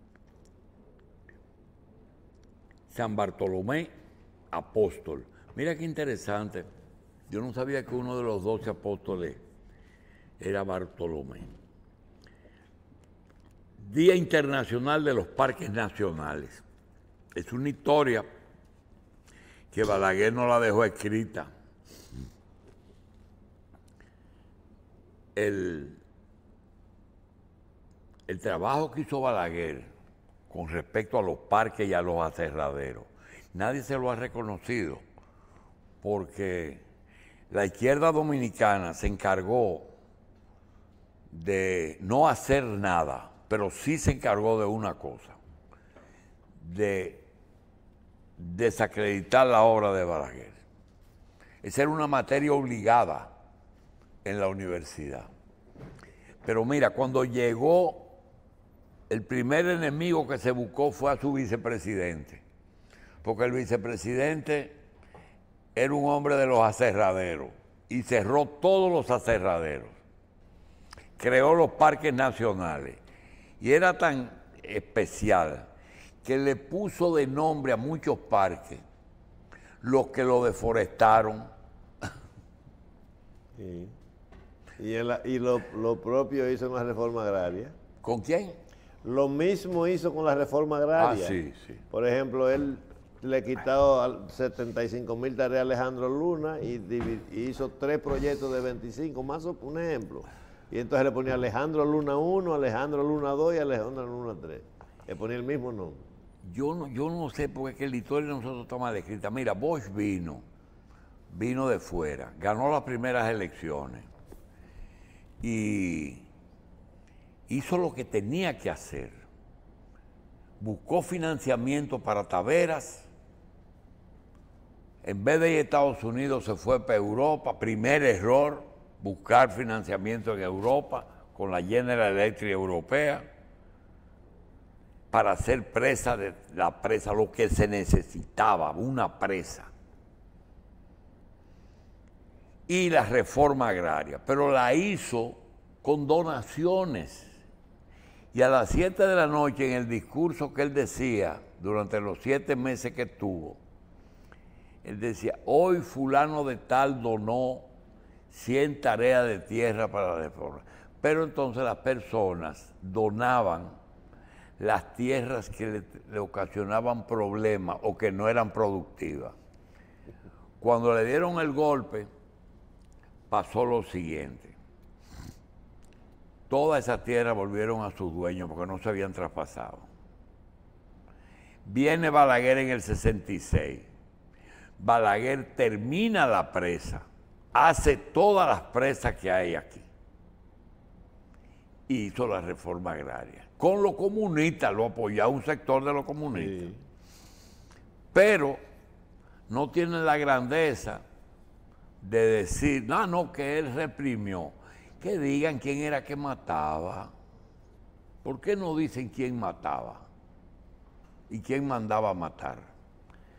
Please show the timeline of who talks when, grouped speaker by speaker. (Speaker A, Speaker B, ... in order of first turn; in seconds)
Speaker A: 2.9-3.9, 4.5-6.7, 7.3-9.4, 10.4-11.5, 13.8-16.6, 17.3-18.3, 19.7-21.5, 25.3-26.0, 28.3-29.9, 30.5-35.0, 36.0-36.8, 37.5-39.9, 41.3-45.4, 46.6-47.2, 48.4-50.6, 51.6-53.3, 54.2-55.3, 56.4-58.1, 59.1-62.4, 63.2-64.8, 65.7-69.9, 71.2-73.0, 73.6-75.7, 76.2-78.8, 79.8-81.5, 88.0-88.5, 91.0-91.8, 106.4-110.4, 111.3-114.1, 115.4-116.2, 117.5-119.1, 120.6-123.1, 125.0-133.2, 135.1-139.7, 142.7-147.4, 148.3-153.6, 154.8-157.7, 158.3-163.7, 164.6-169.3, 170.6-172.1, 173.3-174.6, 176.5-179.9, 181.6-183.9, 184.8-189.9, 191.9-196.7, 198.1-198.6, 199.5-201.0, 202.0-207.1, 208.2-210.1, 211.3-212.7
Speaker B: 83.5-83.9, 84.8-87.7, 89.0-91.3, 91.9-106.0, 196.3-196.8